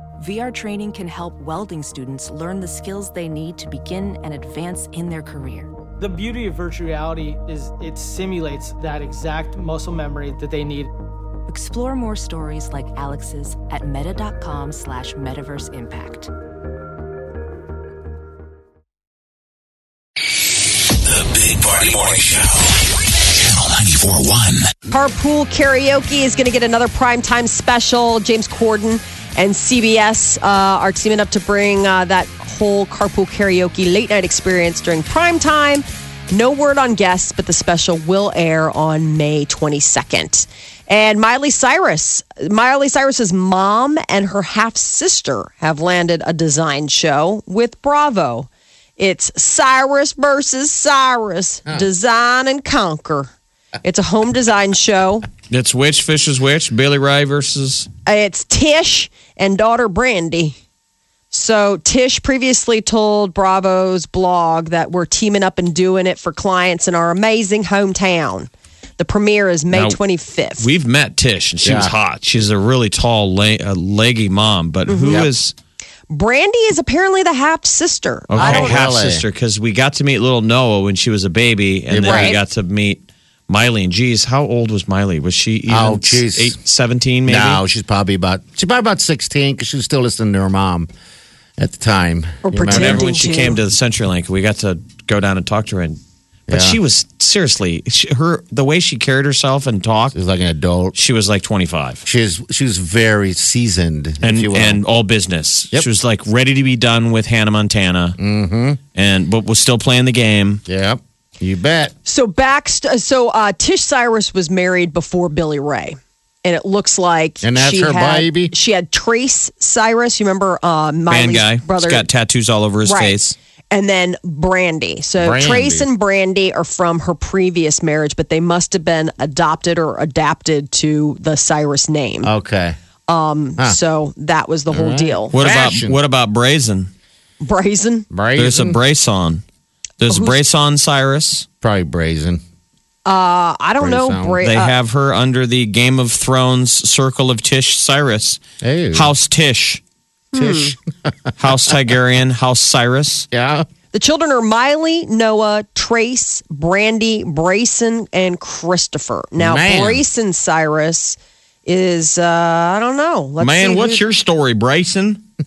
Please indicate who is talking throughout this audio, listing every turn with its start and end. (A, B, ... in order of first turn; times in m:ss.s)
0:00.2-0:05.7 A
0:06.0-0:10.9 B
0:11.5-0:16.3 A
0:21.1-0:22.6 C
0:23.5-0:24.6 C
0:24.9-0:53.3 D
0:53.8-0:55.3 D
0:55.5-0:57.9 E
0:58.0-1:00.6 D
1:01.3-1:10.7 D
1:09.7-1:10.0 E
1:10.6-1:15.6 E
1:11.6-1:11.9 F
1:14.9-1:15.3 D
1:16.1-1:18.7 D
1:18.3-1:27.6 E
1:18.3-1:19.2 F
1:21.9-1:22.4 F
1:22.0-1:22.4 D
1:25.7-1:26.6 F
1:27.2-1:30.9 F
1:31.6-1:33.1 F
1:32.4-1:33.6 D
1:32.7-1:40.2 E
1:36.5-1:36.8 F
1:40.1-1:41.0 F
1:40.9-1:42.0 E
1:42.0-1:44.8 F
1:44.2-1:48.2 E
1:48.2-1:48.8 F
1:48.9-1:50.6 E
1:50.7-1:51.9 F
1:52.0-2:02.1 D
1:57.4-1:58.5 F
2:01.1-2:03.3 E
2:02.8-2:03.2 D
2:03.7-2:12.3 D
2:05.2-2:05.9 F
2:12.2-2:12.8 F
2:13.1-2:15.3 D
2:14.7-2:16.0 F
2:15.3-2:16.9 E
2:17.4-2:18.1 D
2:18.1-2:18.8 F
2:18.3-2:19.4 E
2:20.0-2:21.5 E
2:20.1-2:20.4 D
2:21.6-2:22.4 F
2:23.1-2:24.8 D
2:23.8-2:24.4 F
2:24.4-2:28.4 E
2:28.6-2:29.1 F
2:28.9-2:29.8 E
2:30.3-2:30.7 D
2:30.3-2:31.8 F
2:31.4-2:33.3 E
2:33.3-2:33.7 F
2:33.9-2:44.0 D
2:39.4-2:40.0 F
2:43.4-2:45.2 E